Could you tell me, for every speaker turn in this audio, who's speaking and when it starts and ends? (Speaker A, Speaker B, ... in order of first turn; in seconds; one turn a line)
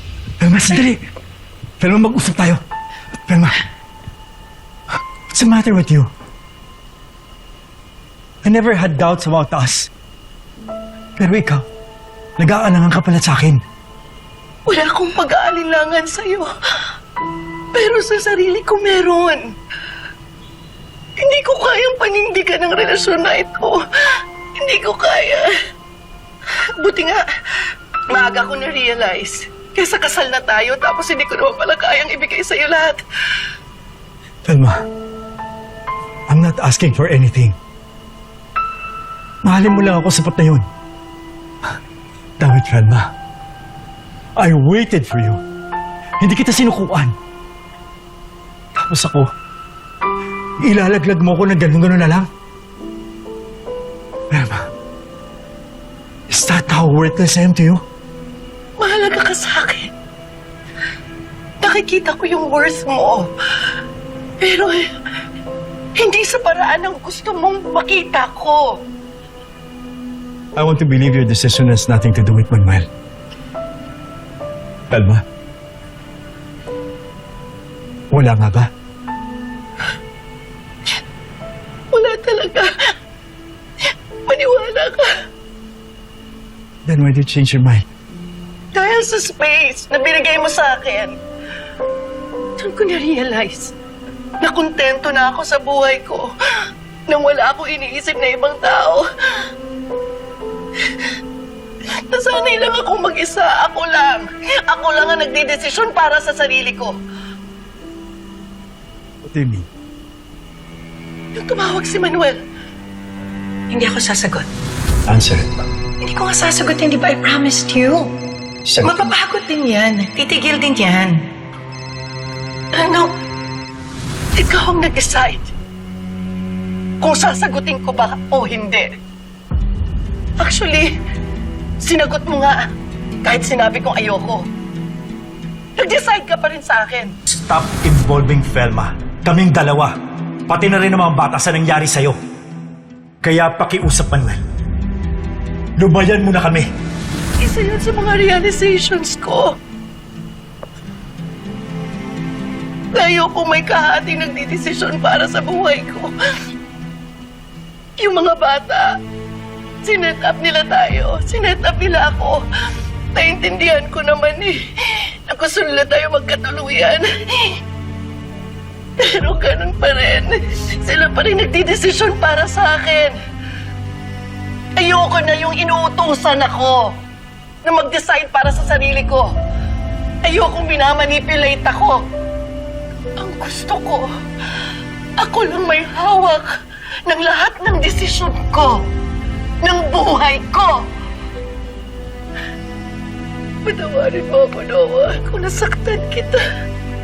Speaker A: 0.4-1.0
Speaker A: 1.8-2.6
Speaker A: 3.3-3.6
Speaker A: 5.3-6.1
Speaker A: 8.4-9.9
Speaker A: 11.2-11.7
Speaker A: 12.4-13.6
Speaker B: 14.7-16.5
Speaker B: 17.7-19.4
Speaker B: 21.2-25.5
Speaker B: 26.8-33.0
Speaker A: 34.4-34.8
Speaker A: 36.3-37.6
Speaker A: 39.4-40.7
Speaker A: 42.4-43.1
Speaker A: 44.4-45.4
Speaker A: 46.2-47.1
Speaker A: 48.7-49.3
Speaker A: 50.6-52.3
Speaker A: 54.3-54.7
Speaker A: 56.3-57.8
Speaker B: 58.8-59.9
Speaker B: 61.6-63.3
Speaker B: 64.4-64.9
Speaker B: 66.0-68.8
Speaker A: 70.5-72.9
Speaker A: 74.9-75.2
Speaker A: 78.1-78.7
Speaker B: 81.9-82.7
Speaker B: 84.3-85.1
Speaker A: 86.8-87.8
Speaker B: 88.7-91.2
Speaker B: 92.6-93.7
Speaker B: 94.4-96.3
Speaker B: 97.1-99.5
Speaker B: 100.8-101.1
Speaker B: 102.1-107.0
Speaker A: 109.2-109.7
Speaker B: 111.3-112.4
Speaker B: 113.7-114.5
Speaker A: 115.1-115.6
Speaker B: 116.0-118.1
Speaker A: 118.6-119.0
Speaker B: 118.8-121.2
Speaker B: 122.7-123.1
Speaker B: 124.4-125.5
Speaker B: 127.0-128.9
Speaker B: 130.4-130.9
Speaker B: 131.8-132.7
Speaker B: 133.2-134.5
Speaker B: 135.8-137.2
Speaker A: 137.3-139.9
Speaker A: 140.5-142.2
Speaker A: 143.2-144.4
Speaker A: 145.8-146.7
Speaker B: 147.4-149.6
Speaker B: 152.9-156.1
Speaker B: 158.0-158.9
Speaker B: 159.8-162.4
Speaker B: 163.1-167.6
Speaker B: 169.0-173.2
Speaker B: 174.8-177.0
Speaker B: 177.6-179.3
Speaker B: 180.2-182.0
Speaker B: 183.2-184.1
Speaker B: 185.2-188.9
Speaker B: 189.6-190.9
Speaker B: 193.6-196.4